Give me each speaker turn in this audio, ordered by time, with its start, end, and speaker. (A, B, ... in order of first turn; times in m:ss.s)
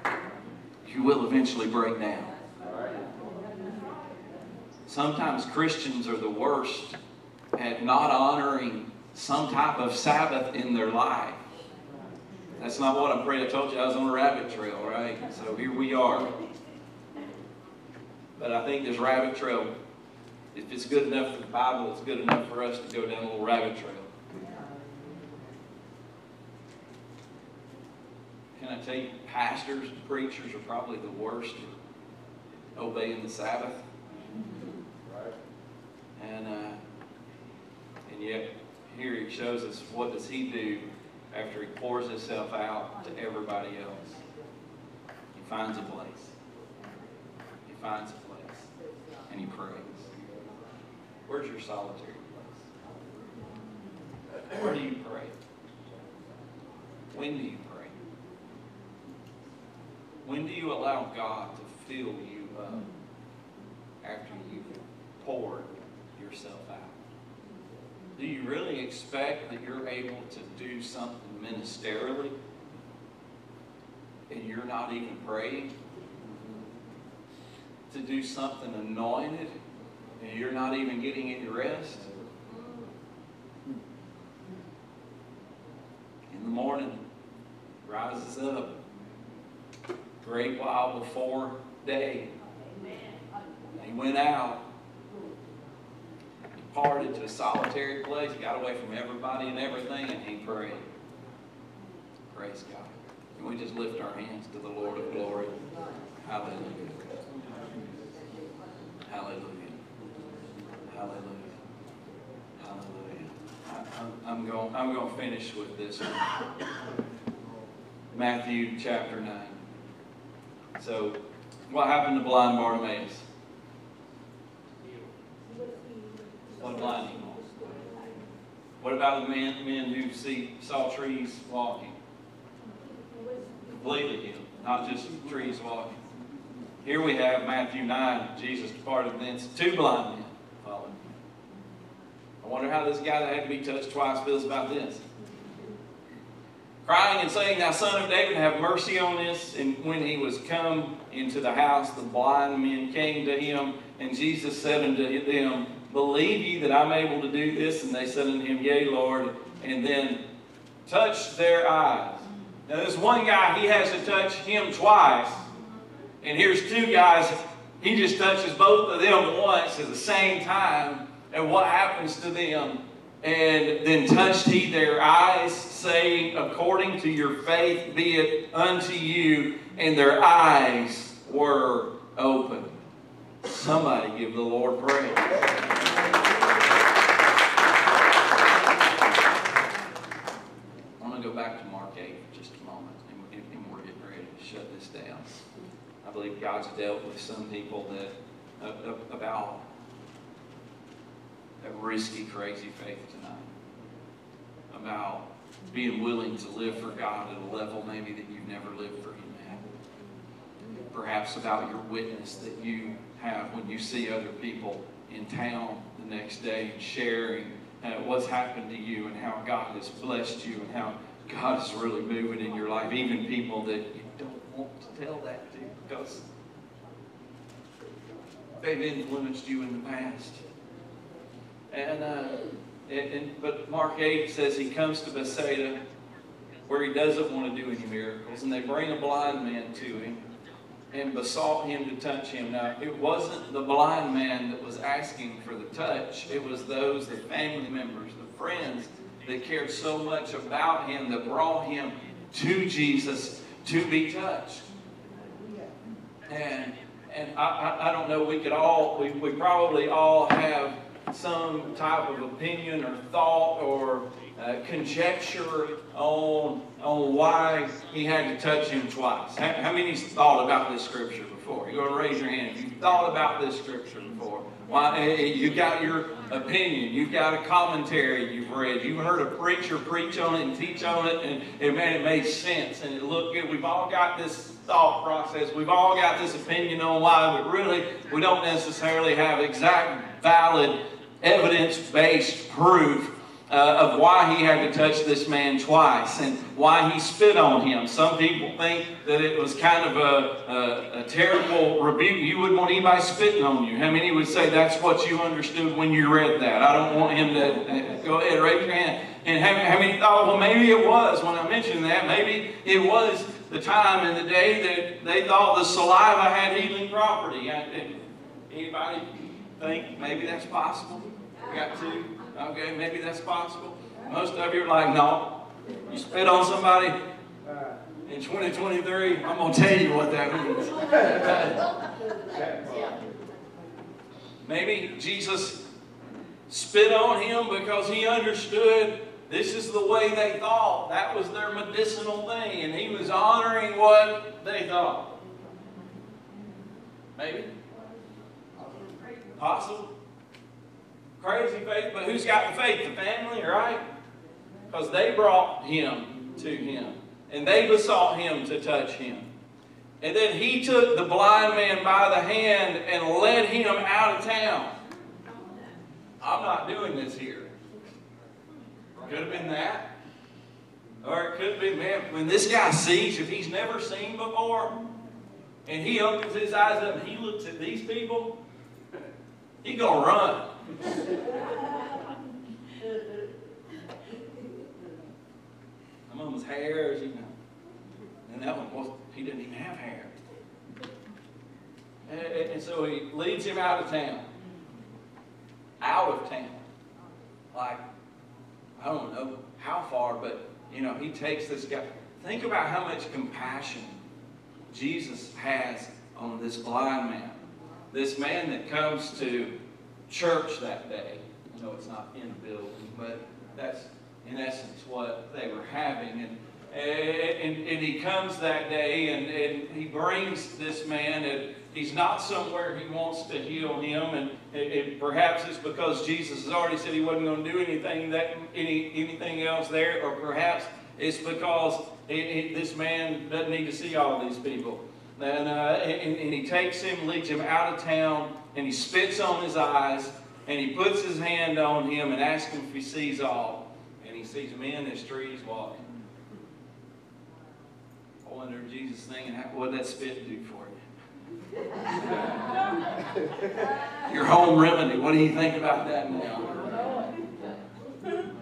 0:00.8-0:02.3 A
0:04.9-0:07.0 A
0:07.6-0:11.4 A
0:12.6-0:16.3 A
0:18.4-0:19.7 A
0:20.5-0:24.1 A
0:28.6-0:31.7 A
0:32.8-0:33.8 A
0:36.2-0:36.8 A
0:38.1-0:44.2 A
0:45.4-0:46.3 A
0:47.7-0:48.7 A
0:49.3-0:50.1 A
0:51.3-0:52.7 A
0:54.5-0:55.3 A
0:57.1-0:58.0 A
1:00.2-1:02.9 A
1:04.0-1:07.0 A
1:08.2-1:12.4 A
1:14.3-1:15.7 A
1:17.9-1:19.6 A
1:20.2-1:22.1 A
1:26.3-1:27.0 A
1:27.8-1:28.7 A
1:30.2-1:32.3 A
1:33.8-1:34.6 A
1:36.6-1:40.9 A
1:42.3-1:45.5 A
1:46.2-1:47.0 A
1:49.1-1:49.8 A
1:50.9-1:51.6 A
1:52.6-1:56.2 A
1:58.1-1:59.6 A
2:00.8-2:01.2 A
2:01.7-2:03.3 A
2:06.6-2:07.4 A
2:08.8-2:12.0 A
2:13.8-2:16.0 A
2:16.8-2:21.1 A
2:22.4-2:25.0 A
2:26.8-2:40.2 A
2:40.9-2:45.4 A
2:46.2-3:02.7 A
3:03.4-3:05.4 A
3:11.0-3:15.5 A
3:16.0-3:19.6 A
3:21.6-3:23.5 A
3:24.7-3:29.6 A
3:30.9-3:46.2 A
3:48.6-3:50.4 A
3:51.7-3:55.8 A
3:56.7-4:00.2 A
4:00.9-4:14.6 A
4:16.3-5:18.0 A
5:18.5-5:25.4 A
5:25.9-5:27.0 A
5:28.1-5:31.6 A
5:34.4-5:35.6 A
5:36.5-5:45.1 A
5:47.2-5:47.5 A
5:49.4-5:49.9 A
5:51.2-5:53.8 A
5:54.7-5:59.3 A
6:00.0-6:04.7 A
6:06.2-6:07.5 A
6:09.0-6:09.9 A
6:11.0-6:14.8 A
6:15.7-6:18.4 A
6:19.6-6:20.5 A
6:26.1-6:27.3 A
6:28.3-6:30.1 A
6:32.1-6:34.3 A
6:35.8-6:36.6 A
6:37.5-6:37.8 A
6:38.8-6:44.0 A
6:44.7-6:49.5 A
6:50.1-7:25.9 A
7:28.2-7:30.8 A
7:34.0-7:36.5 A